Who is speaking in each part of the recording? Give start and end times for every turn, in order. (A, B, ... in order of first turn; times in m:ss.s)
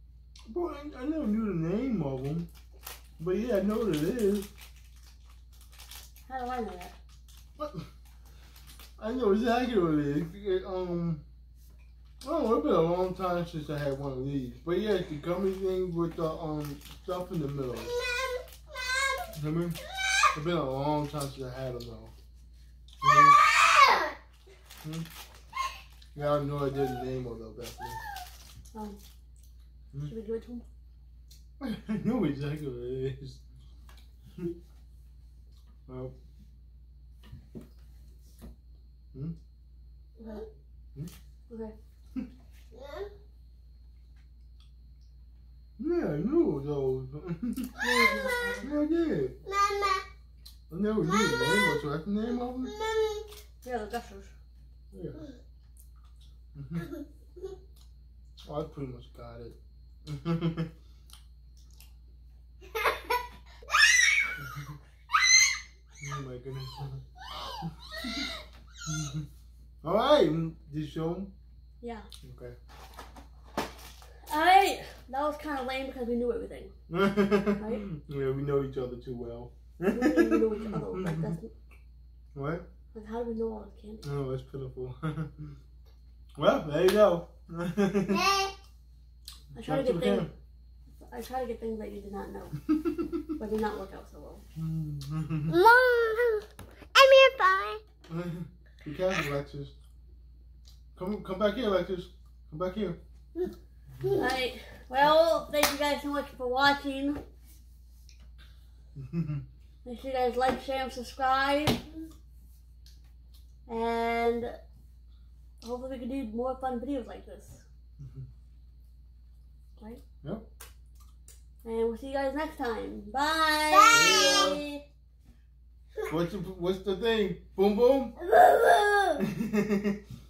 0:00.5-0:02.5 A
0:03.2-0:04.5 A
0:06.3-0:06.9 B
0:07.6-0:07.9 A
0:09.0-0:11.2 A
0:12.2-0:18.0 A
0:19.3-0:19.8 A
0:20.3-0:22.1 A
0:23.0-0:23.4 A
0:26.1-0:28.0 A
0:30.0-0:30.6 B
0:31.6-0:33.4 A
0:35.9-0:36.1 A
0:40.2-0:40.4 B
0:41.5-0:41.7 B
0:42.7-0:43.1 C
0:45.8-0:47.8 A
0:47.8-0:48.7 B
0:48.6-0:49.4 A
0:49.6-0:50.0 C
0:50.7-0:52.8 A
0:52.9-0:53.2 C
0:53.6-0:54.4 B
0:54.9-0:55.3 A
0:56.5-0:57.0 A
0:58.4-1:00.7 A
1:06.0-1:08.3 A
1:08.9-1:09.3 A
1:09.8-1:11.3 A
1:11.8-1:12.1 B
1:12.2-1:12.6 A
1:14.3-1:16.7 B
1:16.9-1:21.4 A
1:17.6-1:17.8 B
1:19.9-1:21.5 B
1:22.4-1:22.6 A
1:22.9-1:24.1 B
1:24.0-1:25.6 A
1:26.4-1:28.3 A
1:28.1-1:28.5 C
1:29.5-1:30.3 A
1:29.5-1:30.3 B
1:31.0-1:32.6 B
1:32.8-1:33.2 A
1:33.4-1:34.4 B
1:34.6-1:35.6 A
1:35.5-1:37.8 C
1:38.1-1:39.7 A
1:40.9-1:43.0 A
1:44.0-1:44.2 A
1:44.2-1:47.2 B
1:48.9-1:49.4 A
1:49.8-1:51.8 B
1:53.7-1:54.6 B
1:55.6-1:57.6 B
1:58.0-1:58.2 A
2:01.6-2:04.8 B
2:03.9-2:04.6 A
2:06.0-2:08.1 A
2:08.2-2:09.2 B
2:09.2-2:10.0 A